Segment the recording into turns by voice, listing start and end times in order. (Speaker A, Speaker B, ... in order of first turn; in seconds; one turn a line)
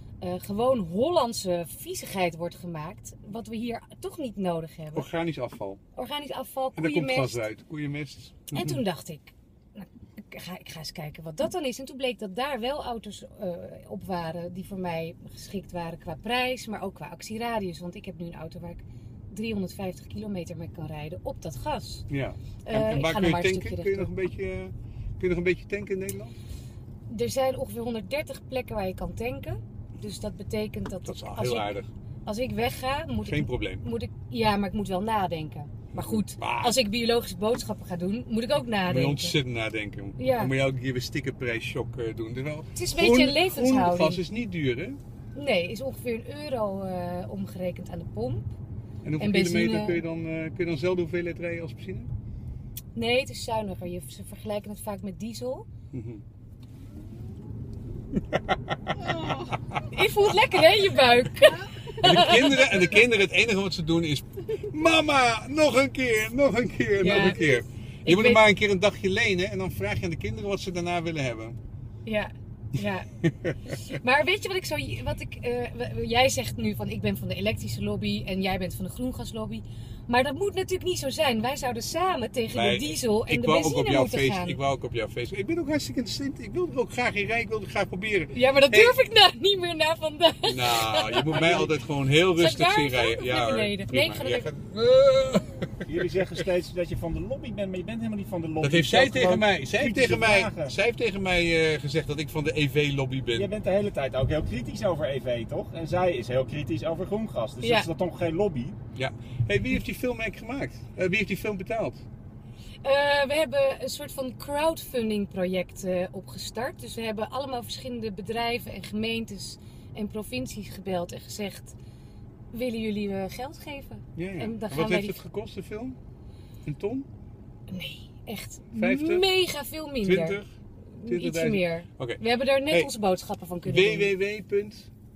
Speaker A: 0.2-5.1
Speaker B: 4.9-5.8
Speaker A: 6.0-7.5
Speaker B: 6.8-8.8
Speaker A: 8.5-22.1
Speaker B: 22.1-26.3
Speaker A: 22.6-24.1
Speaker A: 27.1-39.4
Speaker B: 31.1-31.9
Speaker B: 33.2-33.8
Speaker B: 35.9-36.8
Speaker B: 38.8-45.0
Speaker A: 40.2-40.5
Speaker A: 42.8-44.2
Speaker A: 45.3-48.5
Speaker B: 49.0-52.1
Speaker A: 49.2-50.0
Speaker A: 53.0-55.7
Speaker B: 55.9-56.2
Speaker A: 59.8-62.8
Speaker B: 62.0-71.6
Speaker A: 67.0-68.4
Speaker A: 72.0-73.1
Speaker B: 73.2-73.5
Speaker A: 73.7-84.6
Speaker B: 82.5-89.0
Speaker A: 88.3-91.6
Speaker B: 90.5-96.1
Speaker C: 91.3-91.7
Speaker A: 92.3-94.5
Speaker C: 95.9-100.7
Speaker B: 98.6-103.5
Speaker C: 103.3-108.8
Speaker A: 107.6-107.9
Speaker B: 109.0-112.0
Speaker A: 112.8-121.8
Speaker A: 122.5-125.2
Speaker B: 124.2-126.0
Speaker B: 126.6-127.1
Speaker A: 127.7-130.4
Speaker B: 128.7-129.3
Speaker B: 130.0-130.5
Speaker A: 130.9-134.1
Speaker B: 131.1-132.9
Speaker B: 133.6-134.9